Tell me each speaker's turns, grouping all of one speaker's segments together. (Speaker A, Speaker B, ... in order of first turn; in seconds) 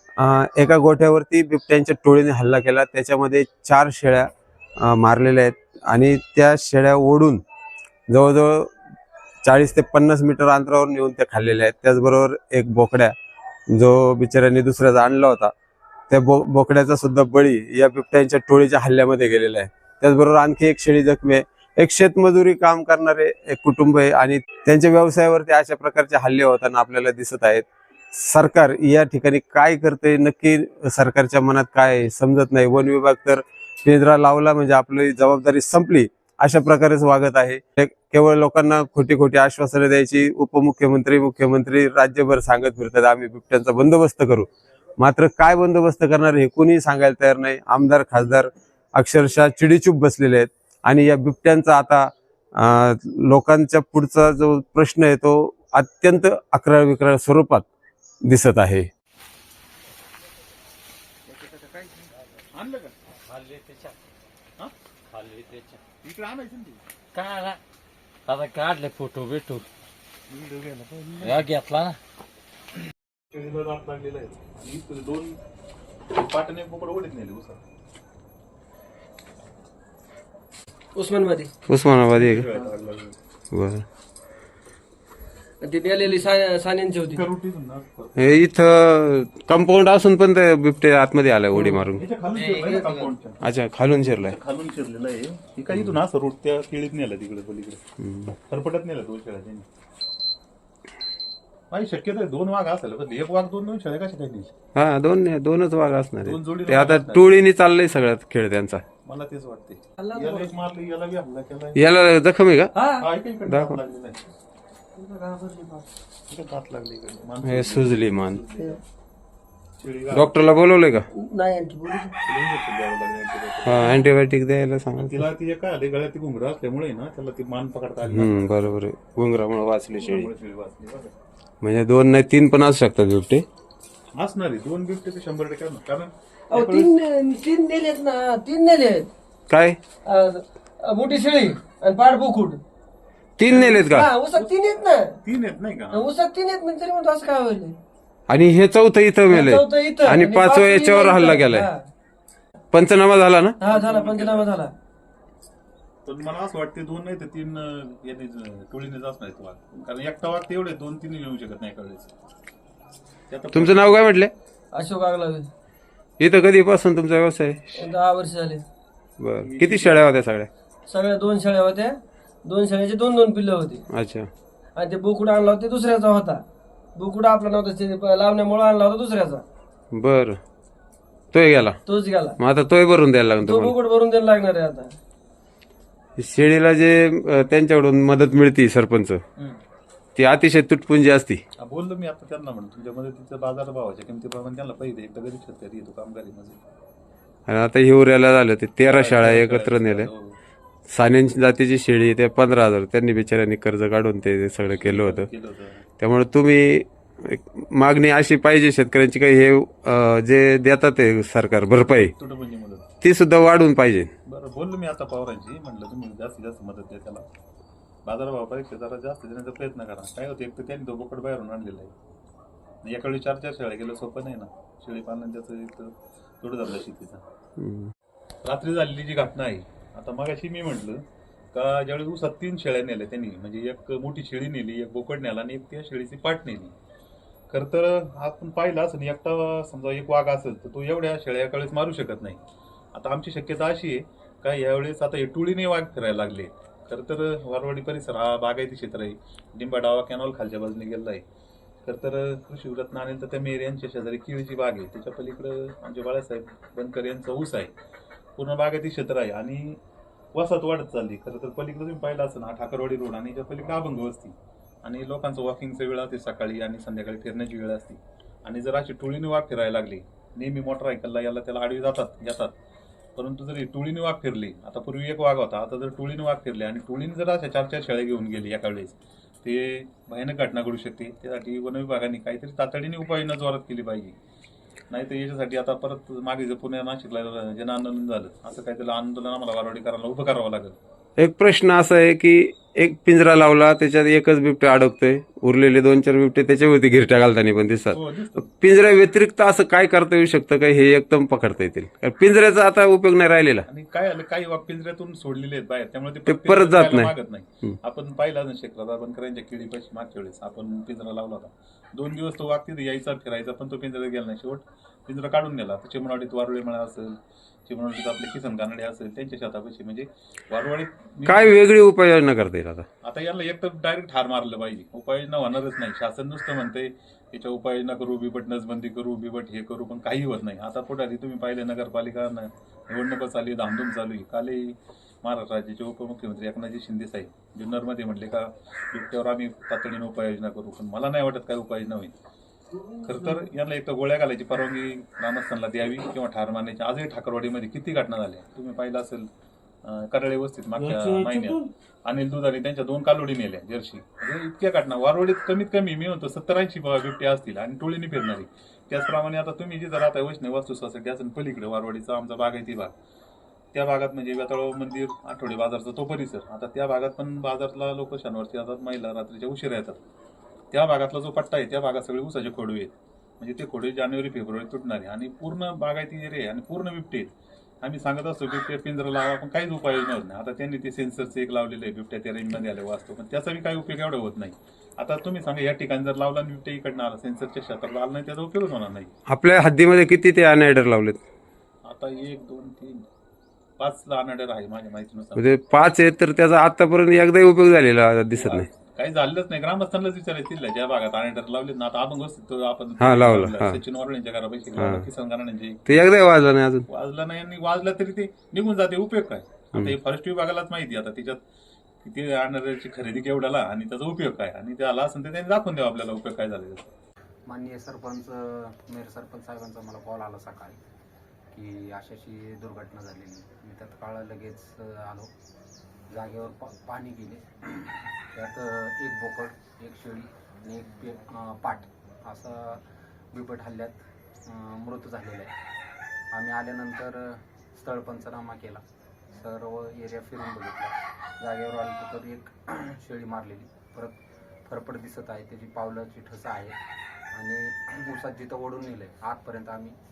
Speaker A: 0.2-4.3, 4.8-7.4, 8.1-8.7, 9.4-13.1, 13.7-15.5, 16.1-57.6, 58.2-58.9, 81.7-82.5, 83.5-83.8, 88.2-92.0, 93.4-94.4, 98.0-98.3, 104.7-108.8, 111.8-112.7, 113.5-113.8, 117.4-118.4, 120.1-121.1, 123.6-125.2, 128.0-130.3, 131.6-133.4, 139.5-139.8, 143.4-144.1, 148.3-151.7, 152.7-153.6, 163.5-164.3, 166.2-167.8, 169.2-170.5, 173.9-174.3, 179.9-180.4, 181.3-181.8, 182.4-183.8, 186.2-189.2, 190.2-191.4, 197.5-200.1, 200.9-205.3, 206.0-212.1, 213.0-214.1, 227.6-227.9, 291.2-303.6, 306.3-307.1, 321.2-322.9, 389.3-391.2, 395.4-398.7, 403.0-403.8, 404.8-405.1, 405.9-406.9
Speaker B: 61.3-63.0, 66.0-66.8, 70.3-71.5, 73.3-75.4, 76.1-77.6, 82.1-83.1, 87.0-88.3, 91.5-93.4, 94.2-97.8, 98.5-99.7, 101.7-104.5, 106.2-107.4, 109.0-111.8, 113.0-114.2, 116.3-118.8, 119.8-120.5, 122.2-124.0, 125.0-128.7, 129.9-131.1, 134.1-136.9, 143.5-143.8, 145.2-146.1, 153.6-154.5, 156.0-162.1, 163.3-164.0, 169.4-170.1, 191.6-196.6, 198.8-200.4, 204.8-205.8, 211.9-212.8, 214.3-217.2, 218.0-221.9, 222.8-227.2, 228.4-236.7, 237.5-242.4, 242.9-251.2, 251.8-257.7, 258.4-259.8, 260.3-272.5, 273.1-284.1, 284.9-290.8, 297.9-298.5, 303.7-321.6, 323.0-342.1, 343.0-349.3, 349.8-362.9, 363.7-370.0, 370.7-377.3, 377.8-389.1, 391.8-393.1, 393.8-395.4, 398.3-405.9, 406.9-411.4, 412.0-416.9
Speaker C: 63.2-64.0, 65.1-65.8, 67.1-67.6, 68.3-69.7, 71.2-72.0
Speaker D: 80.9-81.5, 85.6-87.2, 92.3-93.1, 110.0-110.5, 112.7-113.0, 115.0-115.9, 121.1-122.1, 136.5-139.1, 140.0-142.6, 143.5-145.2, 145.9-147.8, 149.3-151.8, 153.6-154.7, 164.7-165.5, 167.8-168.6, 170.9-173.8, 174.8-176.4, 176.9-179.4, 181.8-182.4, 183.4-185.0
Speaker E: 417.5-420.8, 421.5-425.3, 426.1-435.5, 436.3-446.8, 447.3-449.9